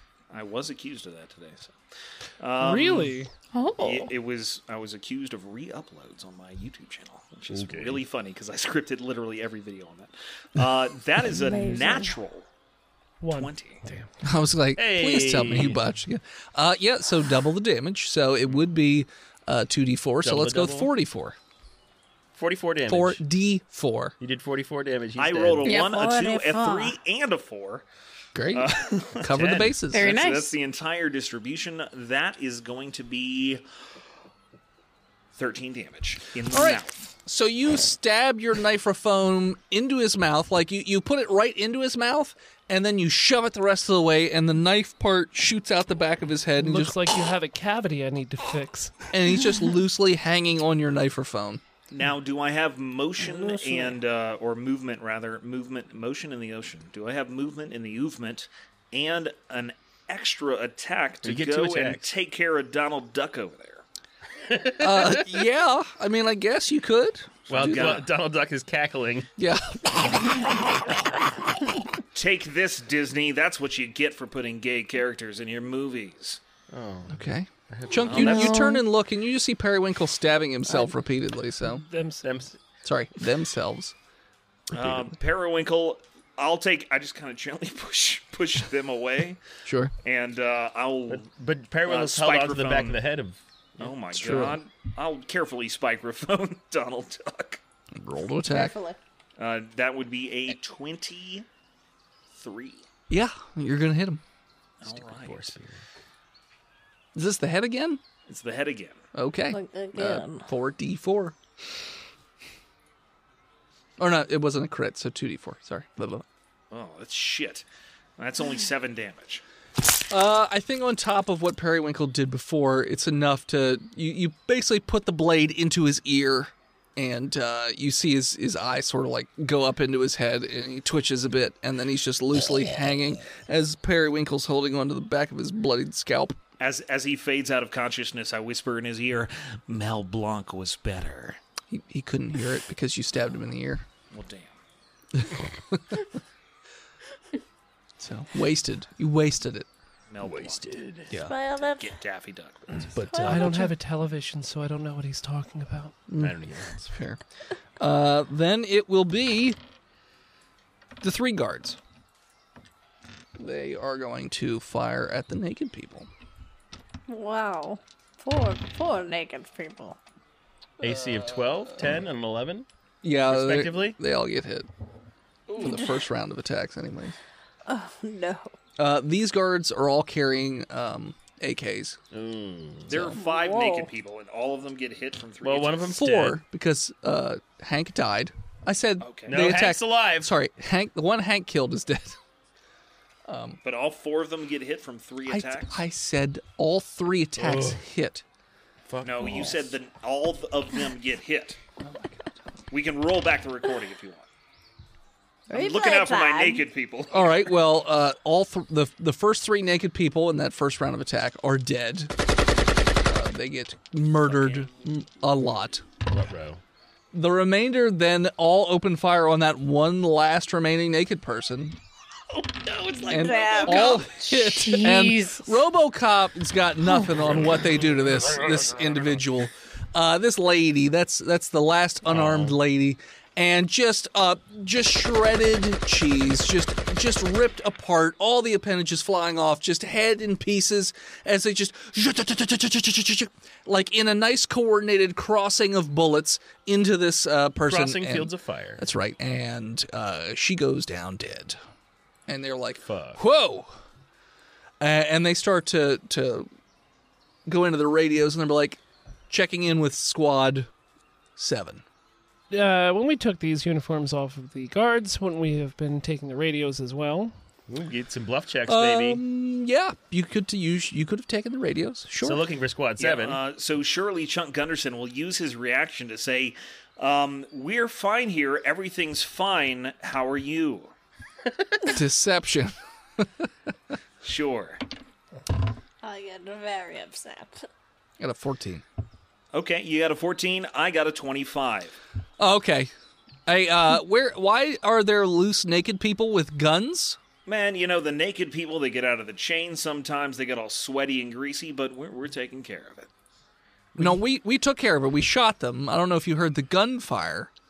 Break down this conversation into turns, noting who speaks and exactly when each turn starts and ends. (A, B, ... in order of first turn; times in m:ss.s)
0:00.3-0:01.7 A
0:02.4-0:03.2 A
0:02.6-0:03.3 B
0:03.5-0:04.1 C
0:03.8-0:12.4 A
0:07.5-0:08.0 D
0:11.2-0:12.1 E
0:13.2-0:14.1 B
0:13.3-0:13.8 A
0:14.2-0:21.4 F
0:14.8-0:15.8 D
0:20.2-0:20.9 D
0:22.3-0:23.2 D
0:22.9-0:24.1 F
0:24.2-0:25.8 D
0:25.2-0:27.8 A
0:25.6-0:26.0 C
0:25.7-0:27.0 E
0:28.3-0:30.1 F
0:28.5-0:33.6 A
0:29.3-0:29.7 D
0:29.9-0:30.5 C
0:35.3-0:37.0 A
0:36.5-0:47.0 F
0:46.6-0:49.1 B
0:49.1-0:51.6 F
0:51.9-1:03.8 A
0:53.2-0:54.0 E
1:01.2-1:02.1 D
1:04.5-1:05.3 D
1:04.8-1:08.0 F
1:07.5-1:08.1 A
1:07.5-1:09.3 D
1:09.4-1:10.6 F
1:12.1-1:16.4 A
1:16.7-1:18.5 D
1:17.1-1:21.8 F
1:18.0-1:18.5 A
1:18.2-1:18.8 C
1:21.7-1:22.3 B
1:22.2-1:22.6 D
1:22.8-1:23.9 F
1:24.7-1:29.4 A
1:24.7-1:25.1 F
1:29.6-1:29.9 F
1:30.0-1:31.3 A
1:31.1-1:33.9 D
1:31.8-1:33.0 A
1:33.8-1:37.6 A
1:34.1-1:34.6 F
1:37.9-1:38.8 F
1:38.4-1:39.0 E
1:39.4-1:41.4 A
1:42.3-1:42.8 A
1:43.1-1:44.2 F
1:44.8-1:45.6 A
1:44.8-1:45.8 D
1:47.1-1:48.0 F
1:48.3-1:49.0 A
1:49.1-1:51.4 F
1:49.5-1:50.5 E
1:54.0-1:56.2 F
1:56.7-1:57.6 A
1:58.2-1:59.4 A
2:00.1-2:16.4 F
2:16.6-2:21.4 A
2:21.7-2:23.8 F
2:24.1-2:24.6 A
2:25.2-2:26.0 F
2:28.0-2:29.7 F
2:30.1-2:30.8 A
2:30.2-2:31.1 D
2:31.2-2:32.0 E
2:31.7-2:33.0 A
2:32.9-2:33.6 D
2:33.0-2:33.7 E
2:33.2-2:35.9 B
2:36.1-2:36.4 F
2:36.2-2:36.9 D
2:36.9-2:37.2 F
2:37.8-2:39.6 F
2:41.0-2:41.8 F
2:43.4-2:46.1 F
2:47.1-2:50.0 E
2:50.8-2:52.7 D
2:53.0-2:54.7 F
2:53.3-2:54.0 D
2:55.5-2:57.2 F
2:57.6-2:58.5 E
2:58.8-3:02.0 F
3:02.1-3:03.0 D
3:02.9-3:05.9 A
3:03.2-3:03.9 E
3:05.4-3:06.4 D
3:05.9-3:12.2 F
3:09.0-3:09.4 A
3:09.3-3:10.3 D
3:13.3-3:13.6 F
3:13.6-3:15.8 A
3:15.3-3:18.2 F
3:17.4-3:17.8 D
3:18.9-3:19.7 D
3:19.0-3:21.6 A
3:21.8-3:22.4 F
3:22.7-3:24.2 A
3:25.5-3:26.6 E
3:25.5-3:27.4 A
3:27.1-3:32.1 F
3:33.0-3:35.9 F
3:36.0-3:36.6 D
3:37.1-3:41.8 F
3:43.0-3:44.0 E
3:43.0-4:11.6 F
3:44.1-3:45.6 C
3:52.1-3:52.6 D
4:07.7-4:08.8 D
4:12.3-4:13.7 F
4:12.8-4:13.2 D
4:14.8-4:16.5 F
4:17.4-4:20.7 F
4:21.4-4:21.8 F
4:22.5-4:27.3 B
4:27.7-4:29.2 D
4:28.7-4:32.4 F
4:32.2-4:33.4 D
4:33.0-4:40.9 A
4:41.8-4:43.5 F
4:44.2-4:44.8 A
4:46.0-4:47.7 E
4:48.2-4:48.8 F
4:49.5-4:52.0 A
4:52.4-4:52.9 F
4:53.4-4:57.2 F
4:57.4-5:03.1 A
5:04.0-5:07.5 F